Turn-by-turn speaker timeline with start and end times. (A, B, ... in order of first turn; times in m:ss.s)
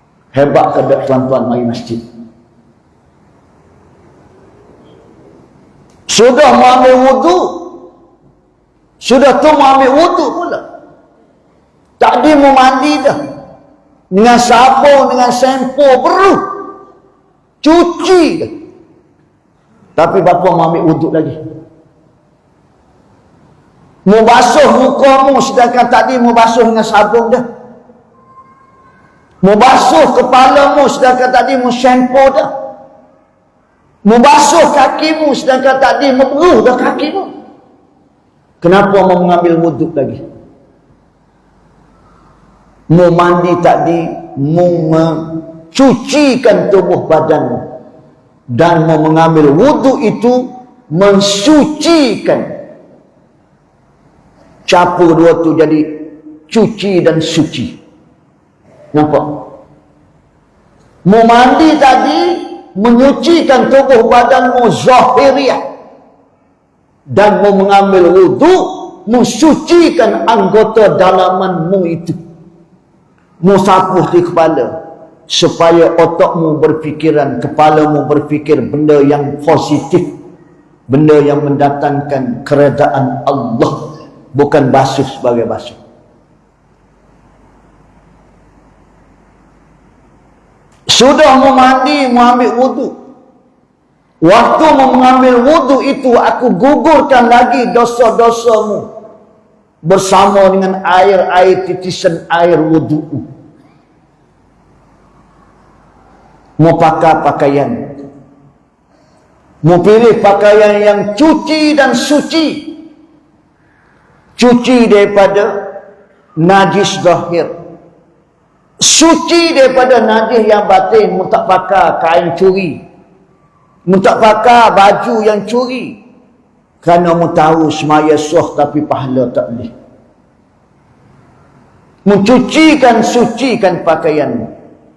0:00.3-0:02.0 A
0:06.1-0:07.8 A
0:09.0-0:10.6 A
0:12.0-0:13.2 A
0:14.1-0:16.7 A
0:17.6-0:18.5 A
0:20.0-0:21.4 A
0:24.1-0:27.4 A
0:29.4-0:32.5 A
0:34.0-0:37.3 A
0:38.6-0:40.2 A
0:42.9-0:47.7 A
0:48.5-0:52.6 A
0:54.7-0:57.8 A
0:58.9-0:59.5 A
1:01.1-1:05.6 A
1:07.1-1:12.2 A
1:13.4-1:14.8 A
1:15.3-1:20.1 A
1:20.9-1:25.8 A
1:30.9-1:32.9 A
1:34.2-1:38.9 A
1:39.8-1:43.2 A
1:46.6-1:48.0 A
1:49.6-1:52.8 A
1:54.4-1:55.7 A
1:56.4-1:57.5 A
1:58.8-2:02.8 A
2:03.9-2:06.0 A
2:06.8-2:09.7 A
2:12.1-2:14.5 A